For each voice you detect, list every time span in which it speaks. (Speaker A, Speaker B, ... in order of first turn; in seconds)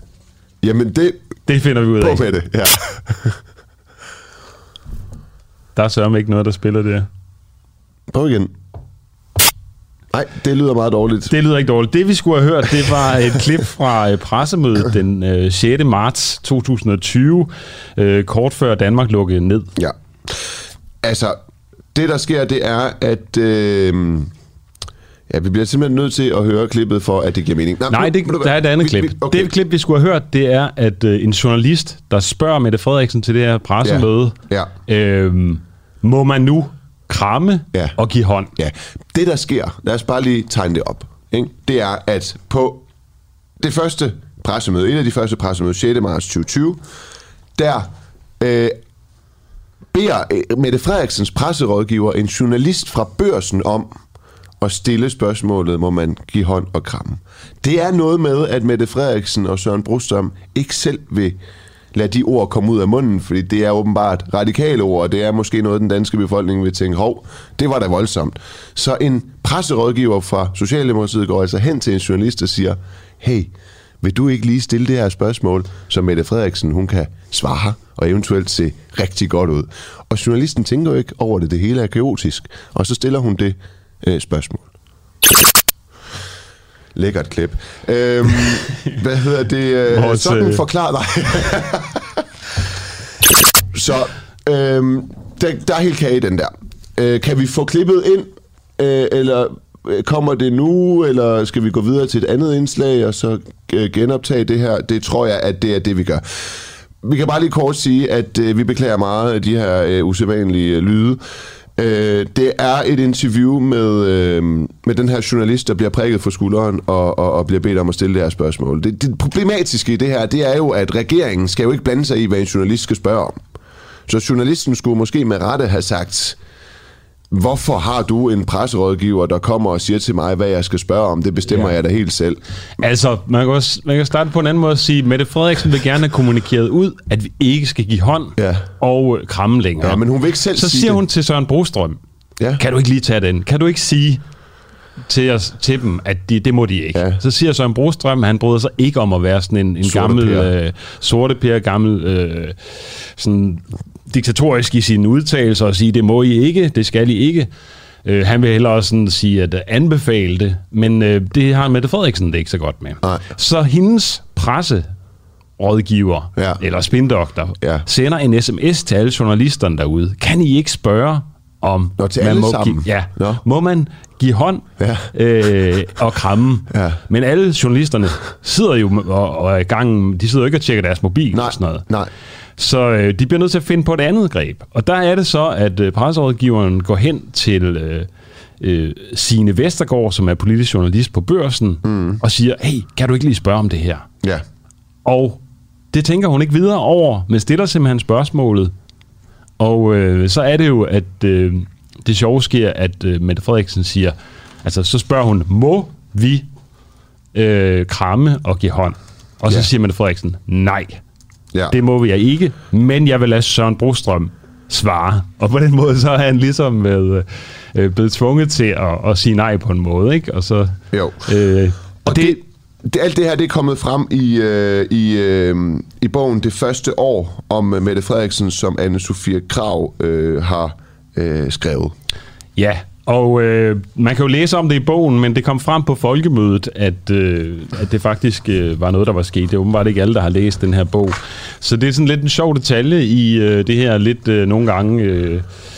Speaker A: 0.6-1.3, 2.0-3.4, 8.1-8.5, 10.1-11.3, 19.8-20.5, 21.0-21.4, 21.9-24.3, 25.3-29.5, 33.8-34.7, 38.6-42.8, 43.6-46.8, 47.6-48.8, 49.9-53.9, 54.6-61.4, 61.9-84.7, 87.0-92.2, 93.7-111.2, 111.8-123.4, 124.1-126.4, 127.3-132.4, 138.4-138.7, 139.8-141.0, 149.8-150.5, 163.0-163.3, 166.4-166.6, 167.6-167.8, 172.0-173.4, 174.8-175.1, 176.7-177.0, 181.3-182.1, 191.8-192.2, 220.9-221.2, 222.1-231.9
Speaker B: 1.5-2.2, 5.8-7.1, 11.3-19.7, 27.9-34.4, 34.9-38.5, 89.9-90.6, 131.5-131.7, 132.8-140.0, 140.5-142.0, 142.6-144.2, 145.1-157.5, 158.1-164.9, 165.6-181.9, 182.6-188.1, 188.6-194.1, 195.1-195.4, 195.9-198.7, 199.6-206.5, 207.3-211.0, 211.7-222.4, 232.6-245.5